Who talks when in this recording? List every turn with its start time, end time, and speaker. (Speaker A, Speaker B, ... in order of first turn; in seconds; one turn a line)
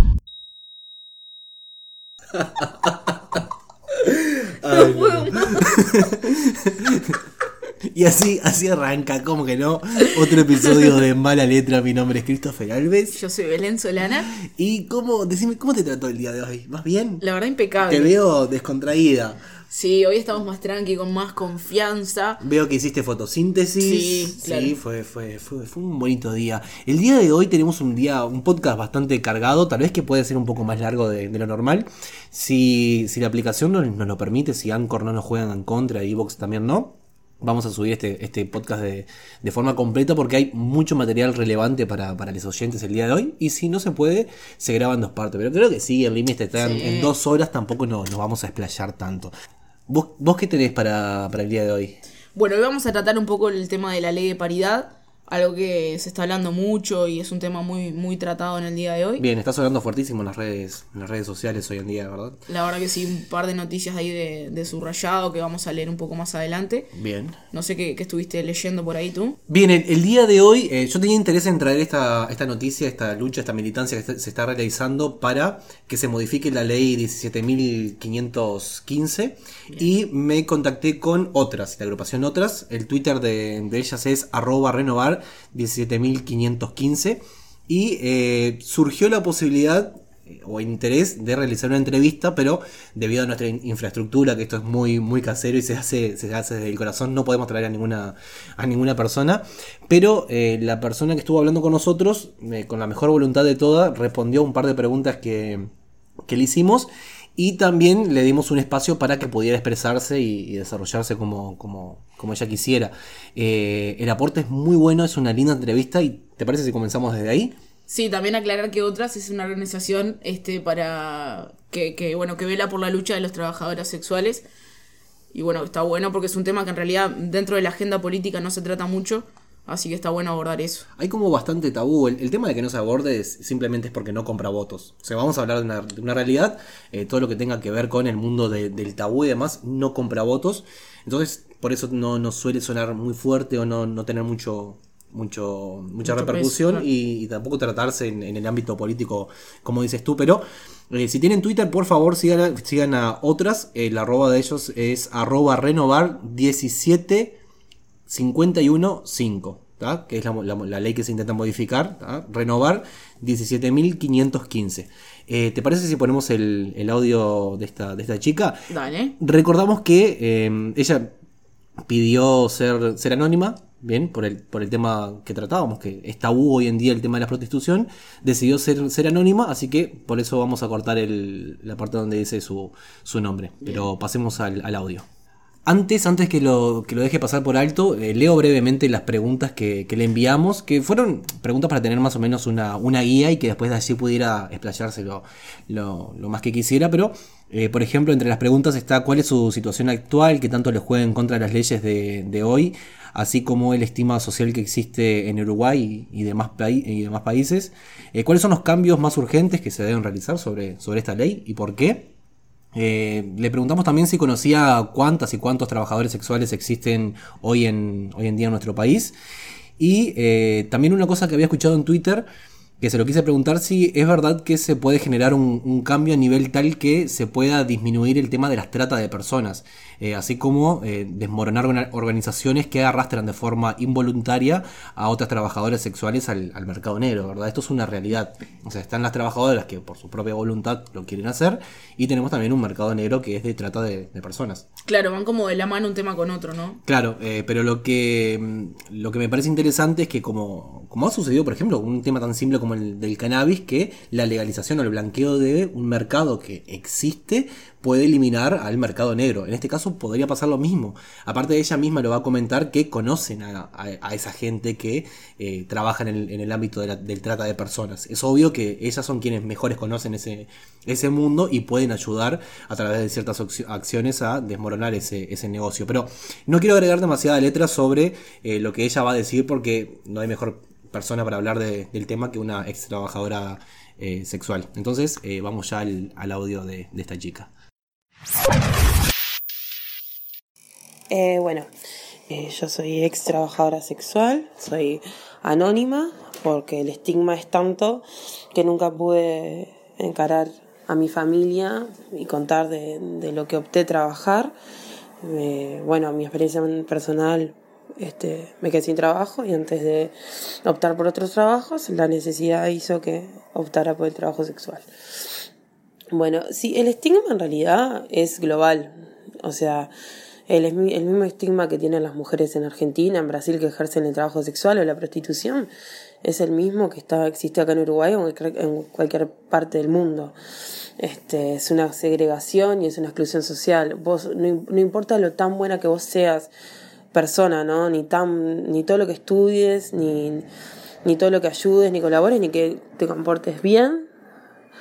Speaker A: 2.4-3.1
Speaker A: 4.4-7.2
Speaker B: 4.6-5.8
Speaker A: 7.8-13.2
Speaker B: 13.1-14.3
Speaker A: 14.4-17.2
Speaker B: 17.2-18.1
Speaker A: 17.8-19.4
Speaker B: 19.7-22.4
Speaker A: 22.4-49.3
Speaker B: 23.8-24.7
Speaker B: 46.5-47.1
Speaker A: 49.9-52.0
Speaker B: 52.3-59.2
Speaker A: 59.2-62.4
Speaker B: 62.5-66.9
Speaker A: 66.9-67.4
Speaker B: 67.5-69.4
Speaker A: 69.5-105.7
Speaker A: 106.3-117.5
Speaker B: 117.9-124.4
Speaker B: 125.3-130.9
Speaker A: 131.0-157.4
Speaker B: 146.0-146.8
Speaker A: 158.1-168.7
Speaker B: 168.7-169.2
Speaker A: 169.2-171.1
Speaker A: 171.8-185.1
Speaker A: 185.7-212.1
Speaker A: 212.7-219.1
Speaker A: 219.8-222.3
Speaker A: 222.8-244.7
Speaker B: 244.8-246.8
Speaker A: 246.8-287.5
Speaker C: 291.1-291.7
Speaker C: 292.3-304.5
Speaker C: 305.2-314.9
Speaker C: 316.1-319.9
Speaker C: 320.5-325.7
Speaker C: 326.2-330.3
Speaker C: 331.0-336.5
Speaker C: 337.1-340.5
Speaker C: 341.1-344.1